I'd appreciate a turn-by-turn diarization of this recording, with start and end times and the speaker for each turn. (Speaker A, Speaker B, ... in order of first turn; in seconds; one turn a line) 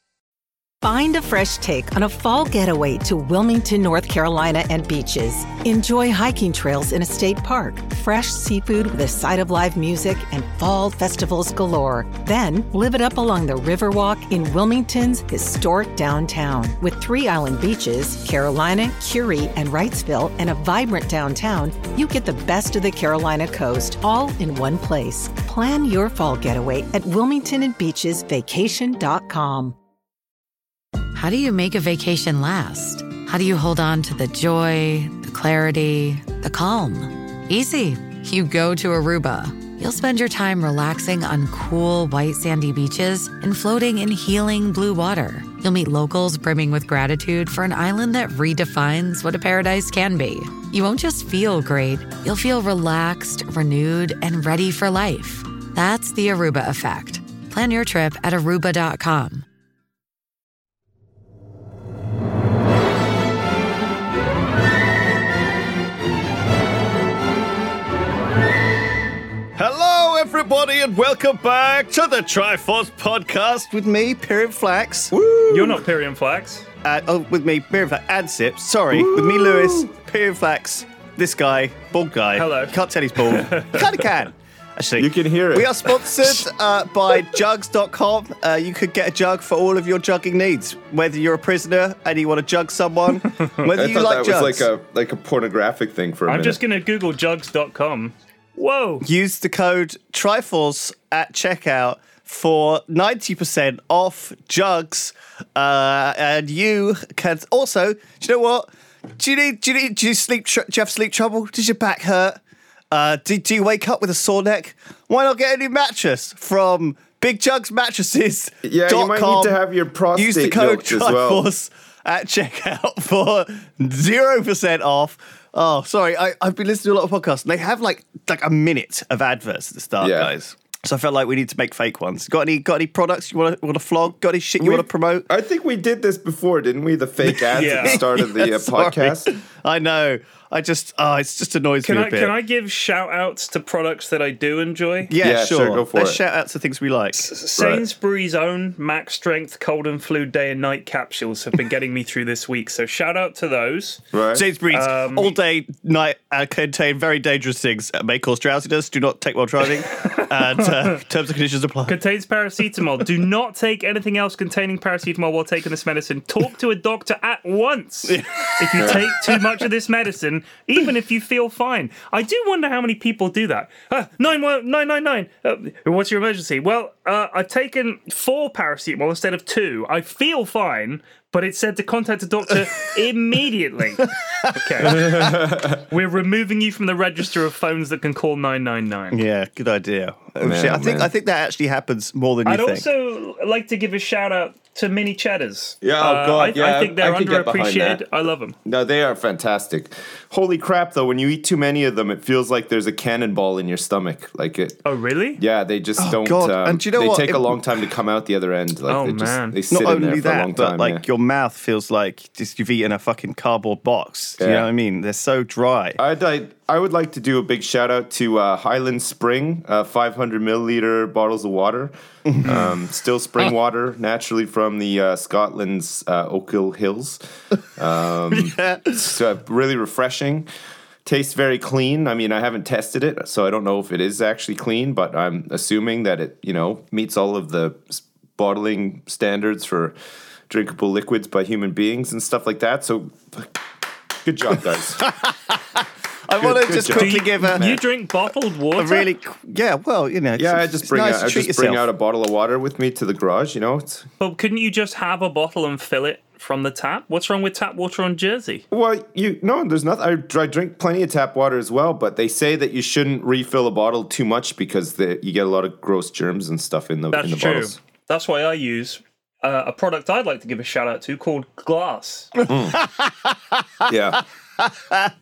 Speaker A: 0.8-29.8
Speaker B: 31.1-59.5
Speaker C: 69.6-75.1
Speaker D: 75.1-75.8
Speaker E: 75.5-76.7
Speaker C: 76.8-94.7
Speaker D: 78.9-79.9
Speaker E: 82.3-84.1
Speaker D: 85.0-86.3
Speaker D: 93.7-96.6
Speaker E: 96.3-99.0
Speaker C: 99.0-108.7
Speaker C: 109.2-112.4
Speaker C: 112.9-119.6
Speaker D: 118.6-121.4
Speaker C: 120.2-135.3
Speaker D: 130.0-130.3
Speaker D: 134.6-139.3
Speaker C: 137.3-142.3
Speaker E: 137.5-138.0
Speaker E: 141.8-145.1
Speaker C: 145.1-147.4
Speaker D: 145.2-146.2
Speaker E: 147.2-154.0
Speaker D: 154.1-154.4
Speaker C: 154.3-162.0
Speaker E: 154.7-155.4
Speaker E: 160.0-161.0
Speaker E: 161.9-185.3
Speaker C: 168.1-169.4
Speaker C: 184.0-185.3
Speaker D: 184.9-185.8
Speaker E: 185.9-189.2
Speaker C: 189.1-192.9
Speaker D: 190.4-191.1
Speaker E: 192.4-198.6
Speaker D: 195.8-198.0
Speaker D: 198.7-204.8
Speaker E: 204.8-205.4
Speaker D: 205.4-211.0
Speaker C: 206.0-207.6
Speaker E: 208.9-209.6
Speaker C: 209.7-216.0
Speaker D: 214.4-214.7
Speaker D: 216.0-227.2
Speaker C: 222.3-222.7
Speaker D: 227.8-230.5
Speaker C: 228.4-229.0
Speaker D: 231.1-239.9
Speaker D: 240.5-243.6
Speaker D: 244.2-245.1
Speaker C: 245.0-247.7
Speaker D: 246.4-247.8
Speaker E: 246.9-249.1
Speaker C: 248.8-251.8
Speaker D: 250.4-254.1
Speaker E: 254.2-258.6
Speaker D: 258.7-267.8
Speaker E: 267.1-272.3
Speaker D: 272.5-272.8
Speaker C: 272.7-273.9
Speaker D: 273.9-274.2
Speaker C: 274.6-275.1